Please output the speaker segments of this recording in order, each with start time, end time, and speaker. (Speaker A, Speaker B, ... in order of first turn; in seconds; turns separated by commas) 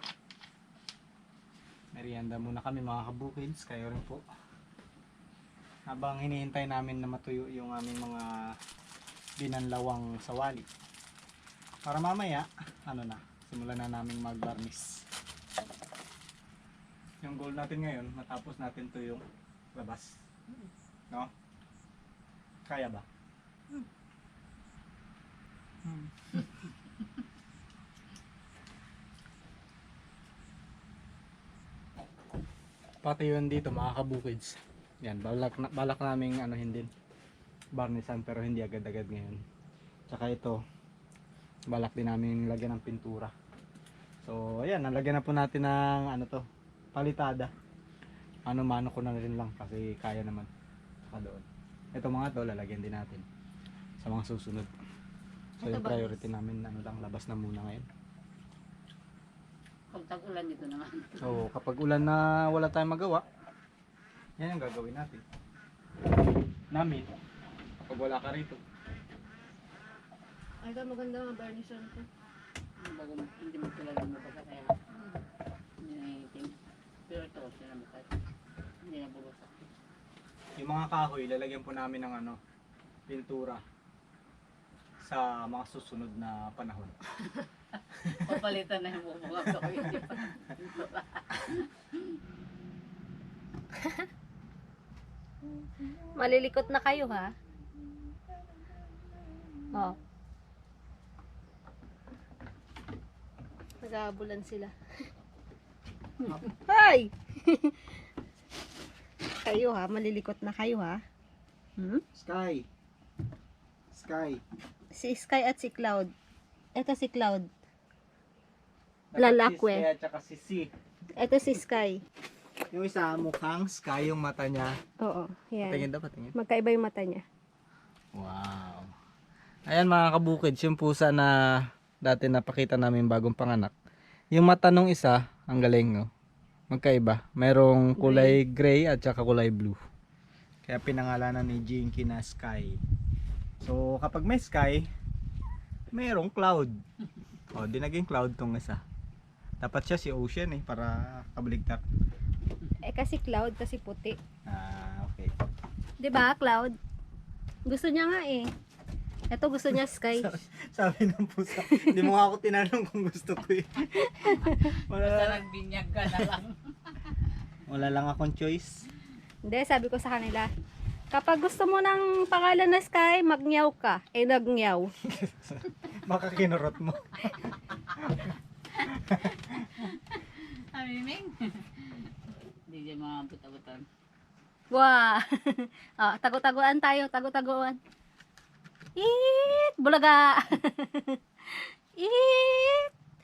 Speaker A: 1.9-4.2, Speaker A: 5.9-8.6, Speaker A: 9.4-10.7, Speaker A: 11.8-15.0, Speaker A: 17.2-19.2, Speaker A: 19.8-20.1, Speaker A: 22.7-23.1, Speaker A: 25.9-26.4, Speaker A: 33.0-36.9, Speaker A: 37.8-39.4, Speaker A: 40.1-40.6, Speaker A: 41.7-43.3, Speaker A: 44.2-46.4, Speaker A: 47.0-47.5, Speaker A: 48.5-50.5, Speaker A: 51.1-53.2, Speaker A: 54.0-54.7, Speaker B: 55.6-56.2, Speaker A: 55.6-57.9, Speaker C: 59.9-61.4, Speaker A: 61.2-63.2, Speaker A: 64.4-65.2, Speaker A: 66.7-67.1, Speaker A: 67.9-68.6, Speaker B: 70.6-72.1, Speaker C: 72.8-74.8, Speaker C: 75.8-76.5, Speaker C: 77.1-78.1, Speaker C: 78.8-79.7, Speaker A: 80.6-82.4, Speaker A: 83.1-83.6, Speaker A: 85.0-87.0, Speaker C: 87.4-92.0, Speaker B: 93.8-94.1, Speaker B: 96.2-97.3, Speaker B: 99.7-100.0, Speaker B: 103.8-104.7, Speaker B: 106.7-107.9, Speaker B: 109.4-111.0, Speaker B: 111.8-112.0, Speaker A: 112.1-112.7, Speaker A: 113.9-114.4, Speaker B: 115.0-116.1, Speaker B: 116.8-117.5, Speaker A: 119.1-120.7, Speaker B: 119.2-119.9, Speaker B: 121.2-122.0, Speaker A: 122.7-124.8, Speaker B: 125.0-127.2, Speaker A: 125.6-126.3, Speaker A: 128.2-128.9, Speaker A: 129.7-133.7, Speaker A: 134.3-136.1, Speaker A: 136.7-139.8, Speaker B: 138.0-138.4, Speaker A: 140.7-142.8, Speaker A: 143.6-144.9, Speaker A: 145.9-146.7, Speaker A: 147.5-148.8, Speaker A: 149.6-151.8, Speaker B: 152.8-154.2, Speaker A: 154.5-155.3, Speaker B: 156.0-156.8, Speaker B: 157.7-158.5, Speaker B: 159.3-160.3, Speaker A: 160.1-165.4, Speaker B: 161.6-162.0, Speaker B: 163.9-164.7, Speaker C: 164.9-167.2, Speaker A: 167.7-168.8, Speaker B: 169.5-170.5, Speaker B: 171.1-174.9, Speaker A: 175.0-177.3, Speaker A: 177.9-179.7, Speaker C: 179.7-182.1, Speaker C: 182.7-183.8, Speaker B: 184.7-187.8, Speaker B: 189.0-192.9